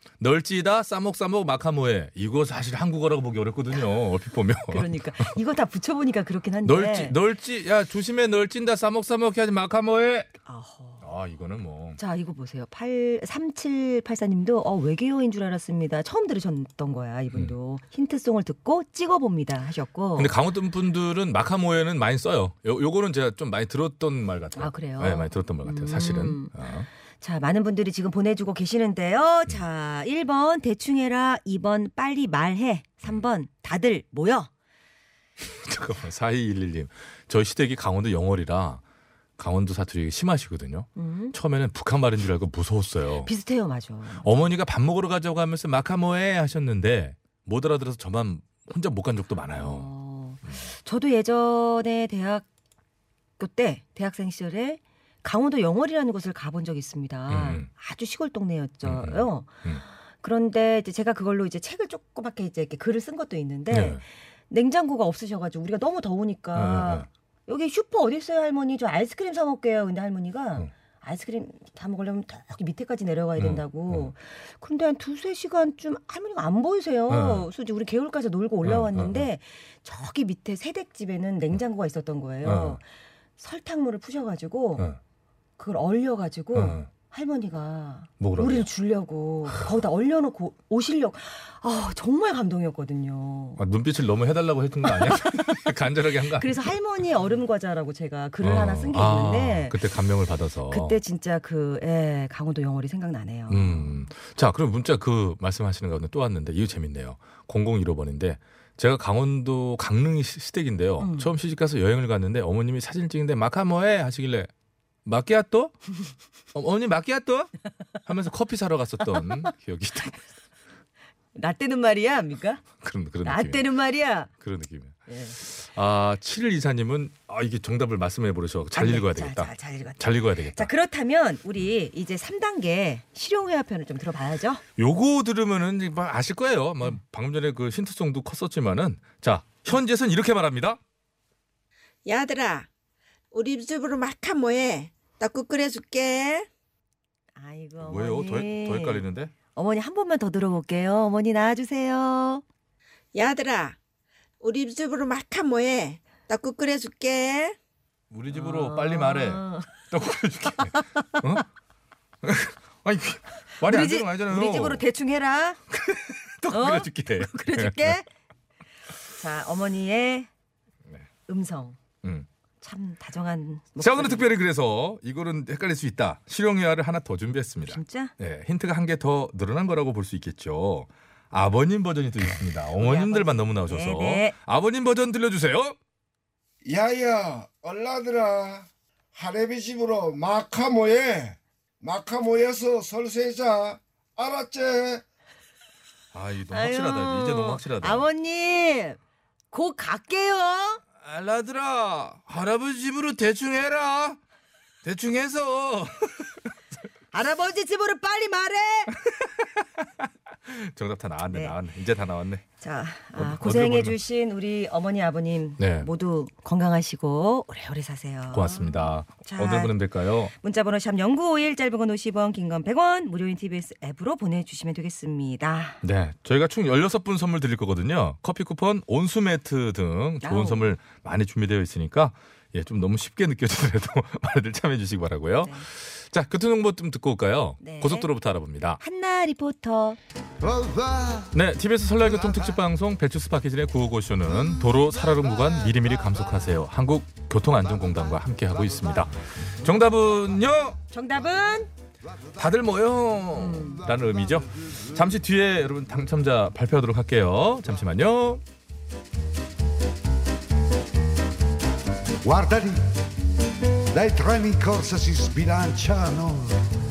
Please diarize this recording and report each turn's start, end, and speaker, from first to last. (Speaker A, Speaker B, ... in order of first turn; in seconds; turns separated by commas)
Speaker A: 0.2-5.3, Speaker B: 4.7-7.2, Speaker A: 6.6-10.3, Speaker B: 10.4-11.1, Speaker A: 11.0-12.0, Speaker B: 12.0-20.4, Speaker A: 20.1-26.9, Speaker B: 24.6-26.5, Speaker B: 27.2-34.5, Speaker A: 35.4-38.8, Speaker A: 39.4-43.3, Speaker B: 41.0-41.4, Speaker B: 43.2-44.2, Speaker A: 44.1-49.9, Speaker B: 49.5-52.4, Speaker B: 53.4-59.6, Speaker A: 57.3-57.7, Speaker A: 58.8-59.8, Speaker B: 60.2-82.8, Speaker A: 63.7-64.0, Speaker A: 66.5-67.1, Speaker A: 73.4-74.1, Speaker A: 77.1-77.5, Speaker A: 78.6-79.2, Speaker A: 82.4-82.8, Speaker B: 83.4-84.9, Speaker B: 85.6-93.6, Speaker A: 86.5-86.9, Speaker A: 88.2-88.7, Speaker A: 93.6-96.5, Speaker B: 95.0-95.3, Speaker B: 96.4-99.8, Speaker A: 98.4-101.0, Speaker B: 100.7-103.9, Speaker A: 103.5-114.5, Speaker B: 111.0-111.3, Speaker A: 115.0-115.9, Speaker A: 116.5-120.2, Speaker B: 119.1-119.5, Speaker B: 121.3-122.6, Speaker A: 122.8-123.7, Speaker B: 123.2-124.3, Speaker A: 124.3-130.7, Speaker B: 125.1-125.4, Speaker B: 128.7-134.6, Speaker A: 134.8-140.8, Speaker C: 142.1-142.7, Speaker C: 143.3-146.5, Speaker B: 147.3-152.4, Speaker A: 147.8-149.3, Speaker C: 153.1-153.8, Speaker C: 154.4-157.6, Speaker A: 158.1-161.4, Speaker B: 158.3-159.7, Speaker B: 160.7-161.2, Speaker A: 162.2-164.8, Speaker B: 163.6-165.6, Speaker A: 165.7-168.0, Speaker B: 166.5-168.1, Speaker B: 169.0-170.3, Speaker B: 171.3-171.8, Speaker B: 172.6-174.3, Speaker A: 173.8-185.8, Speaker B: 177.7-178.1, Speaker B: 182.8-184.3, Speaker D: 186.7-188.6, Speaker D: 189.1-191.3, Speaker D: 191.8-195.0, Speaker A: 196.1-198.1, Speaker B: 196.5-199.0, Speaker B: 199.5-200.8, Speaker A: 201.0-204.2, Speaker A: 204.8-206.5, Speaker B: 207.1-209.0, Speaker A: 209.1-212.4, Speaker B: 211.2-211.6, Speaker B: 212.6-219.8, Speaker A: 213.2-214.0, Speaker A: 215.6-215.9, Speaker A: 218.3-220.3, Speaker B: 220.3-225.8, Speaker A: 225.8-238.8, Speaker B: 230.2-230.7, Speaker B: 237.6-238.1, Speaker B: 238.8-240.0, Speaker E: 240.4-241.3, Speaker A: 241.3-250.8, Speaker B: 250.9-251.7, Speaker A: 252.3-258.4, Speaker B: 253.3-253.8, Speaker E: 262.2-262.8, Speaker E: 263.9-266.6